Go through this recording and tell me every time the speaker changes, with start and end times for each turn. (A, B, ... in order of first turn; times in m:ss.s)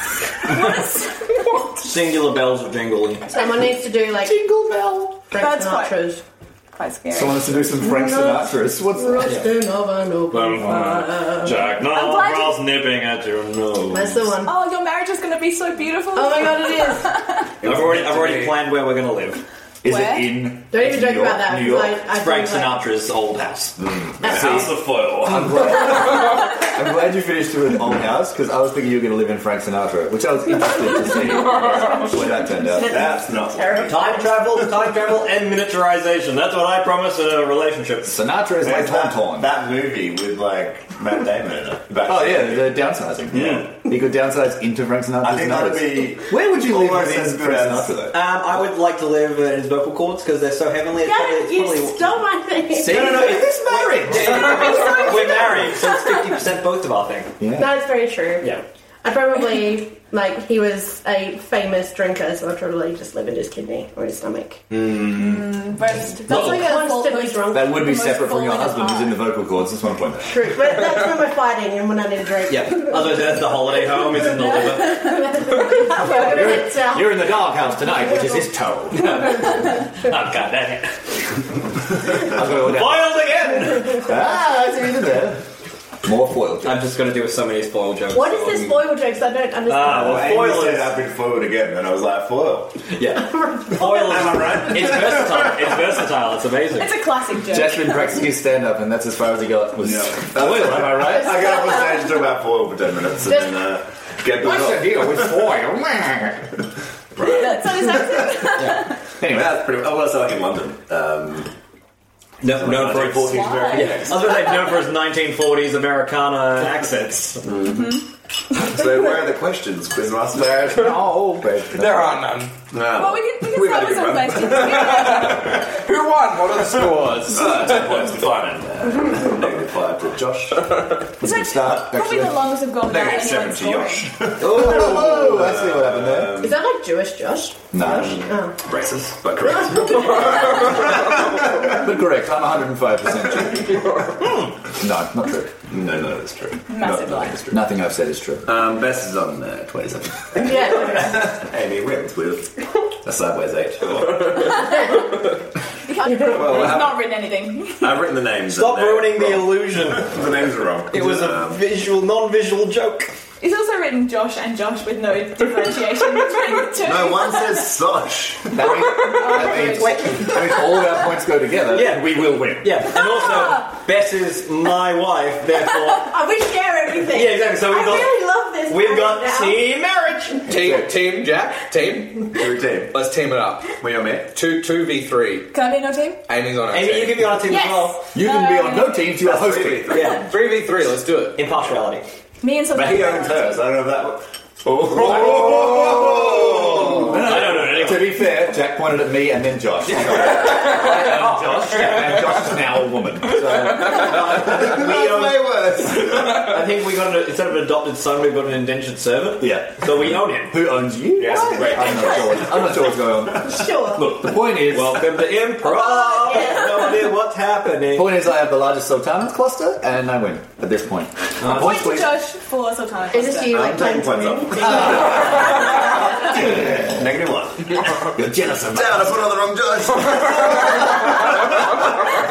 0:00.4-0:01.5 A
0:01.8-0:03.4 B
0:03.3-0:04.4 C
0:04.2-0:05.1 D
0:05.3-0:06.2 C
0:05.4-0:06.0 A
0:06.7-0:07.5 A
0:07.1-0:09.4 D
0:07.8-0:11.8 C
0:10.3-0:14.2 B
0:11.8-0:12.6 A
0:13.9-0:14.5 C
0:14.4-0:17.5 A
0:16.1-0:17.1 C
0:17.6-0:18.5 E
0:17.6-0:19.4 B
0:19.8-0:22.0 D
0:19.8-0:20.4 A
0:20.7-0:22.8 C
0:22.0-0:23.8 B
0:23.8-0:26.2 E
0:24.2-0:24.7 C
0:24.2-0:33.0 D
0:32.5-0:34.6 C
0:32.8-0:34.2 E
0:33.8-0:38.2 B
0:38.0-0:39.5 D
0:38.6-0:42.8 E
0:42.0-0:48.2 D
0:43.3-0:43.8 B
0:45.2-0:47.9 E
0:48.1-0:52.2 B
0:51.0-0:53.2 C
0:52.7-0:57.3 B
0:52.8-0:54.8 D
0:54.3-0:55.7 C
0:57.4-0:57.7 D
0:57.6-0:58.5 C
0:59.0-1:04.6 C
1:04.7-1:05.1 B
1:05.0-1:09.2 A
1:06.2-1:07.9 C
1:07.5-1:10.5 D
1:10.3-1:13.4 C
1:12.5-1:15.1 B
1:13.9-1:18.5 C
1:16.0-1:19.4 D
1:19.0-1:21.4 B
1:22.1-1:23.2 D
1:22.1-1:24.1 B
1:23.9-1:25.4 D
1:26.0-1:26.8 D
1:26.6-1:28.9 B
1:28.1-1:30.0 C
1:29.7-1:31.0 B
1:29.8-1:32.8 E
1:32.9-1:36.9 B
1:33.3-1:34.0 C
1:33.8-1:35.9 E
1:36.7-1:38.1 A
1:37.5-1:41.4 D
1:39.8-1:45.5 E
1:41.0-1:42.4 C
1:44.4-1:46.4 D
1:47.2-1:48.5 E
1:47.2-1:48.9 A
1:48.6-1:48.8 B
1:49.2-1:51.5 E
1:49.2-1:49.5 D
1:52.4-1:57.4 B
1:52.4-1:54.4 E
1:53.2-1:54.3 A
1:57.4-1:58.0 E
1:57.7-1:58.0 A
1:58.5-2:01.0 E
2:00.8-2:02.1 D
2:01.7-2:02.6 F
2:02.7-2:04.9 E
2:02.9-2:05.6 A
2:04.6-2:08.0 F
2:06.8-2:10.8 E
2:11.2-2:12.6 D
2:11.2-2:14.3 A
2:12.8-2:16.6 E
2:14.4-2:16.5 D
2:16.3-2:18.6 C
2:17.7-2:18.2 D
2:17.8-2:21.8 E
2:19.6-2:20.7 C
2:21.7-2:23.9 D
2:24.7-2:25.5 D
2:25.7-2:27.7 E
2:26.7-2:27.4 A
2:27.5-2:28.6 D
2:28.4-2:34.8 E
2:30.4-2:31.4 C
2:34.4-2:35.0 A
2:35.8-2:38.0 A
2:36.2-2:37.1 E
2:37.8-2:41.6 E
2:38.4-2:40.2 B
2:40.9-2:43.1 B
2:43.4-2:47.7 A
2:46.8-2:48.6 E
2:48.5-2:52.9 D
2:48.6-2:50.3 A
2:49.1-2:50.6 B
2:51.7-2:56.1 B
2:55.9-2:59.7 C
2:57.0-3:00.4 B
3:00.4-3:03.8 F
3:00.5-3:00.9 D
3:02.3-3:03.0 E
3:03.8-3:04.3 E
3:04.3-3:05.5 F
3:05.5-3:06.2 A
3:06.3-3:07.5 F
3:06.7-3:08.0 B
3:07.5-3:09.1 A
3:08.1-3:10.1 D
3:09.1-3:10.3 E
3:09.9-3:10.5 B
3:10.1-3:11.4 F
3:11.4-3:12.0 B
3:12.4-3:13.6 A
3:12.7-3:17.4 E
3:15.0-3:24.2 D
3:16.6-3:18.3 B
3:20.2-3:22.2 B
3:20.5-3:21.4 F
3:23.8-3:30.7 B
3:24.2-3:26.5 E
3:29.4-3:35.3 D
3:31.2-3:33.2 E
3:31.4-3:32.3 C
3:33.4-3:34.2 C
3:34.6-3:38.2 B
3:35.6-3:37.1 C
3:37.9-3:42.2 D
3:41.4-3:41.8 B
3:41.4-3:43.6 A
3:43.1-3:45.9 C
3:43.5-3:48.0 E
3:46.4-3:46.9 D
3:48.0-3:49.2 D
3:48.6-3:51.8 E